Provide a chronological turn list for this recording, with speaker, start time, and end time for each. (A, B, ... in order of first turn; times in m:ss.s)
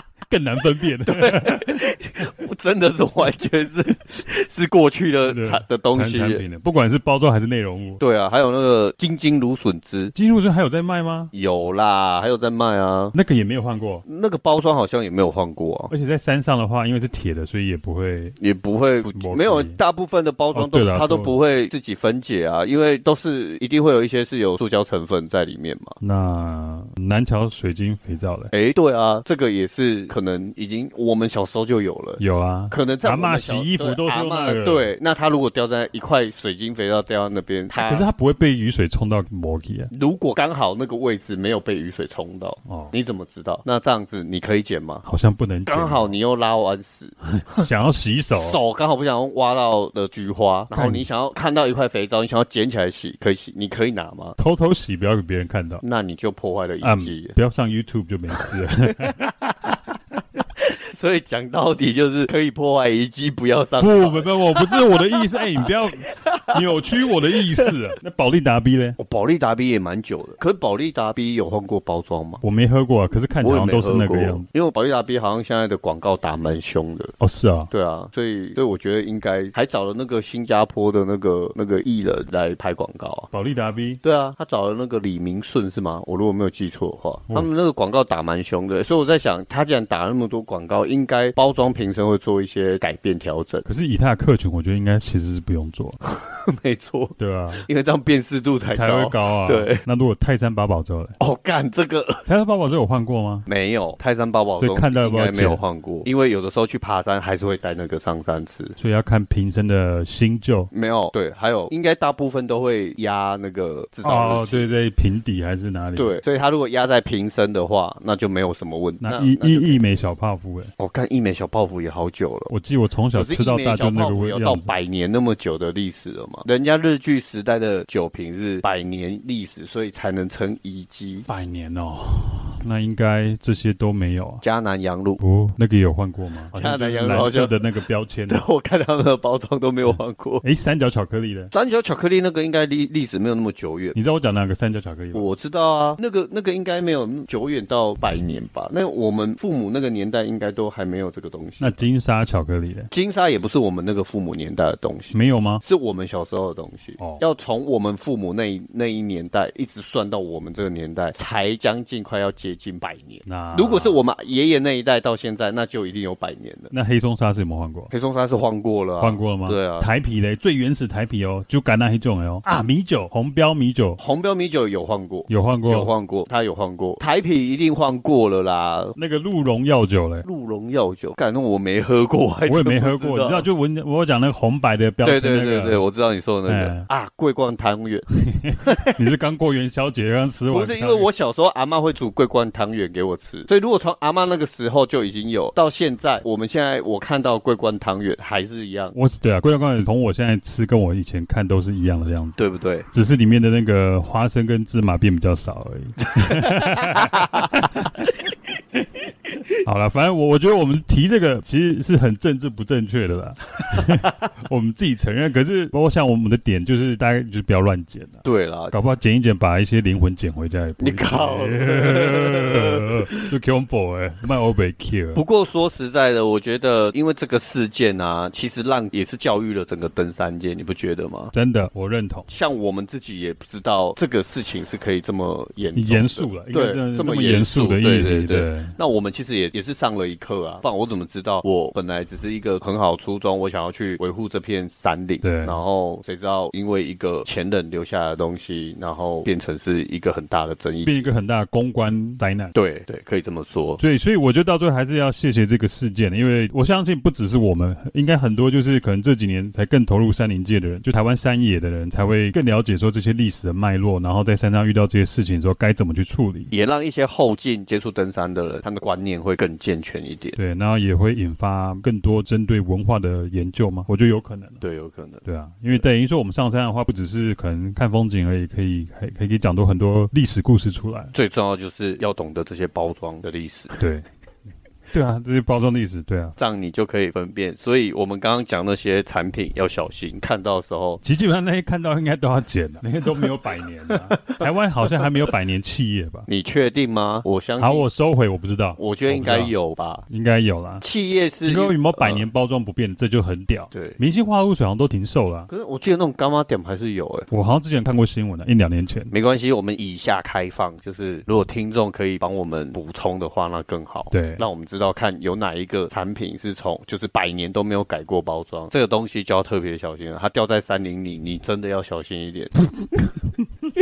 0:00.3-0:01.8 A
0:01.0-0:06.4 B
0:05.2-0:08.0 A
0:08.0-0:10.1 B
0:10.1-0:11.3 A
0:11.3-0:13.1 B
0:13.1-0:14.0 A
0:14.0-0:15.9 B
0:15.9-0:18.4 A
0:18.4-0:26.0 B
0:19.1-0:19.8 A
0:20.5-0:21.4 A
0:26.0-0:28.5 A
0:28.5-0:38.0 B
0:32.2-0:34.9 A
0:37.7-0:39.9 A
0:39.9-0:45.0 B
0:42.6-0:42.9 A
0:45.0-0:46.1 A
0:45.6-0:47.7 B
0:47.4-0:48.6 A
0:48.3-0:54.4 B
0:50.7-0:51.0 A
0:54.4-0:55.8 A
0:55.8-0:57.4 B
0:56.8-0:59.4 A
0:58.4-1:06.6 B
1:03.8-1:09.0 A
1:07.3-1:07.6 B
1:09.0-1:12.4 B
1:12.4-1:14.5 A
1:13.4-1:17.1 B
1:17.2-1:17.7 A
1:17.7-1:23.3 B
1:23.3-1:24.0 A
1:24.0-1:33.6 B
1:33.6-1:36.0 A
1:36.1-1:39.8 B
1:37.2-1:37.6 A
1:38.7-1:41.2 A
1:41.2-1:42.2 B
1:42.2-1:43.4 A
1:43.4-1:48.8 B
1:44.6-1:45.6 A
1:48.8-1:50.7 A
1:50.7-1:54.7 B
1:54.0-1:56.2 A
1:56.0-1:59.8 B
1:59.0-2:00.7 A
2:00.8-2:02.5 B
2:02.5-2:04.7 A
2:03.1-2:11.3 B
2:11.3-2:14.4 A
2:14.4-2:15.2 B
2:15.2-2:18.4 A
2:16.5-2:17.6 B
2:18.3-2:20.4 B
2:19.9-2:21.5 A
2:21.5-2:24.0 B
2:23.9-2:25.3 A
2:25.1-2:31.8 B
2:31.6-2:32.9 A
2:32.9-2:46.7 B
2:35.1-2:35.6 A
2:43.2-2:44.0 A
2:46.7-2:47.9 A
2:47.9-2:49.9 B
2:49.0-2:54.0 A
2:54.0-2:59.0 B
2:55.3-2:55.9 A
2:59.0-3:00.2 A
3:00.2-3:03.5 B
3:02.4-3:05.8 A
3:05.0-3:08.0 B
3:06.5-3:06.9 A
3:08.2-3:11.1 A
3:08.6-3:09.0 B
3:10.5-3:19.0 B
3:18.9-3:22.4 A
3:22.4-3:22.9 B
3:22.9-3:28.1 A
3:26.2-3:27.7 B
3:29.6-3:45.2 A
3:38.2-3:38.7 B
3:40.8-3:43.3 B
3:45.1-3:51.3 B
3:51.3-3:52.2 A
3:52.3-4:11.0 B
3:55.7-3:58.7 A
4:05.2-4:05.6 A
4:10.8-4:12.5 A
4:12.5-4:13.8 B
4:13.8-4:26.5 A
4:26.5-4:30.4 B
4:30.4-4:34.6 A
4:34.6-4:35.2 B
4:35.2-4:41.1 A
4:41.1-4:43.8 B
4:43.8-4:44.1 A
4:44.9-4:46.3 A
4:46.4-4:51.0 B
4:51.0-4:56.2 A
4:53.9-4:54.4 B
4:56.3-4:57.8 B
4:57.6-4:59.5 A
4:58.8-5:00.0 B
5:00.1-5:00.8 A
5:00.8-5:02.2 B
5:01.4-5:05.5 A
5:03.7-5:04.0 B
5:05.5-5:07.3 B
5:07.3-5:09.1 A
5:09.1-5:23.1 B
5:14.1-5:14.4 A